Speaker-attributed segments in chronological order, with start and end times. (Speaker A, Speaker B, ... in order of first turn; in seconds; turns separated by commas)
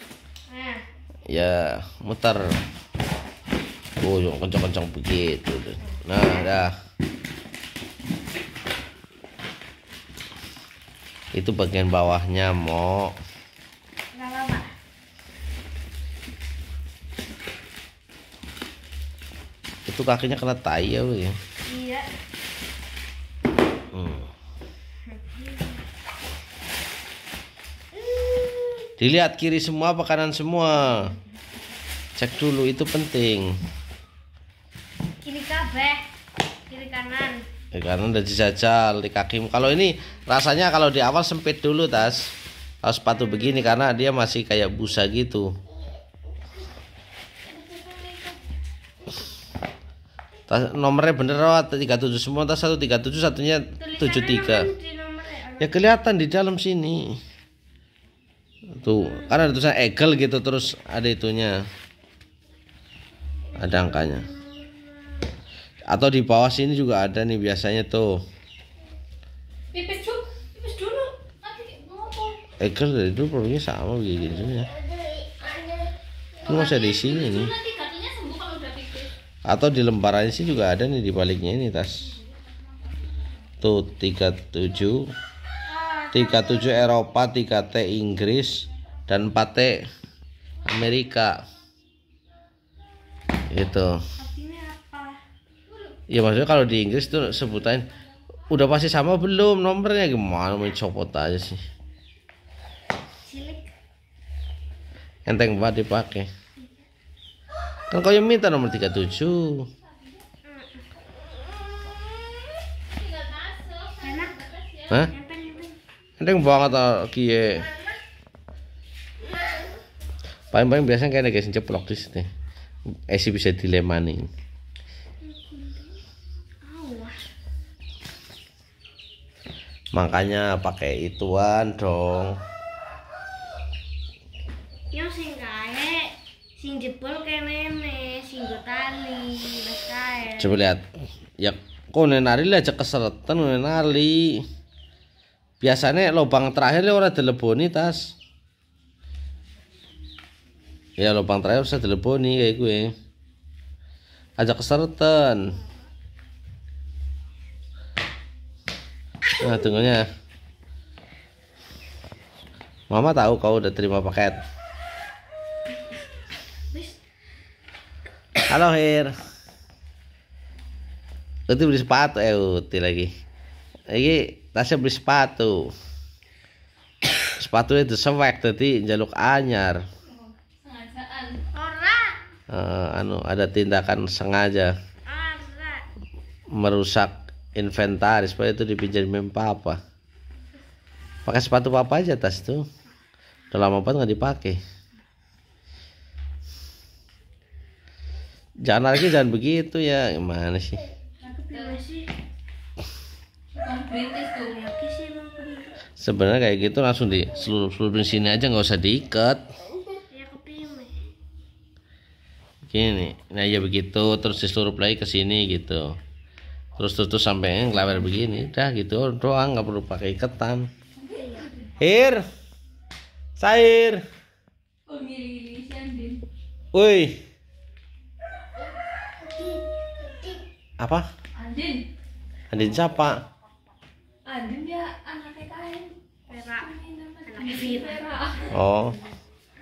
Speaker A: 0.5-0.8, Speaker B: 1.3-2.6, Speaker B: 4.0-6.7, Speaker A: 5.8-6.5, Speaker B: 11.3-13.1, Speaker A: 14.1-14.7, Speaker B: 19.9-21.4, Speaker A: 21.7-22.1, Speaker B: 23.9-24.3, Speaker A: 25.1-25.8, Speaker A: 28.1-28.9, Speaker B: 29.0-31.1, Speaker B: 32.2-33.5, Speaker A: 35.2-36.0, Speaker A: 36.7-37.4, Speaker B: 37.7-42.3, Speaker B: 42.8-45.5, Speaker C: 47.6-48.3, Speaker B: 50.5-54.7, Speaker A: 53.8-55.9, Speaker B: 55.6-57.2, Speaker B: 58.8-61.6, Speaker A: 58.9-59.4, Speaker A: 63.5-65.3, Speaker B: 63.6-64.2, Speaker B: 65.9-68.2, Speaker C: 69.7-72.4, Speaker B: 72.6-74.7, Speaker A: 74.8-75.9, Speaker B: 76.4-77.5, Speaker C: 76.4-79.1, Speaker B: 79.5-82.1, Speaker B: 83.6-85.1, Speaker A: 85.7-86.7, Speaker B: 86.1-89.8, Speaker B: 90.7-91.4, Speaker B: 93.5-94.0, Speaker A: 94.2-95.2, Speaker B: 96.1-97.9, Speaker B: 98.5-101.6, Speaker A: 103.2-103.7, Speaker B: 105.3-106.3, Speaker B: 107.9-109.7, Speaker A: 110.4-110.8, Speaker C: 112.9-115.1, Speaker A: 114.0-114.4, Speaker A: 115.0-115.8, Speaker B: 116.2-117.7, Speaker B: 120.5-122.3, Speaker B: 123.1-124.3, Speaker A: 125.2-125.8, Speaker A: 126.6-127.2, Speaker B: 129.9-132.4, Speaker A: 134.9-140.5, Speaker B: 140.4-140.8, Speaker B: 141.4-144.4, Speaker B: 145.6-148.1, Speaker B: 151.0-152.9, Speaker B: 154.4-155.5, Speaker B: 159.4-160.0, Speaker B: 162.9-164.4, Speaker A: 166.7-167.0, Speaker B: 168.5-169.1, Speaker B: 171.5-173.1, Speaker B: 173.9-175.7, Speaker B: 177.4-179.8, Speaker C: 180.1-181.4, Speaker A: 181.5-182.2, Speaker B: 182.5-184.7, Speaker A: 185.1-185.8, Speaker B: 186.5-189.8, Speaker B: 191.2-192.6, Speaker B: 193.5-194.6, Speaker B: 198.6-200.8, Speaker A: 201.2-202.1, Speaker C: 201.4-201.8, Speaker C: 203.5-204.6, Speaker A: 204.3-205.7, Speaker B: 206.0-209.4, Speaker A: 210.0-210.9, Speaker B: 212.7-215.9, Speaker B: 216.8-220.7, Speaker C: 221.0-221.7, Speaker A: 221.1-221.5, Speaker B: 221.8-222.2, Speaker B: 223.4-224.0, Speaker C: 224.8-226.2, Speaker B: 226.7-227.2, Speaker A: 229.2-230.4, Speaker B: 230.8-231.1, Speaker C: 231.3-231.9, Speaker B: 232.5-233.2, Speaker C: 234.2-236.0, Speaker A: 236.3-236.7, Speaker C: 236.5-238.5, Speaker A: 237.2-238.1, Speaker B: 238.5-239.0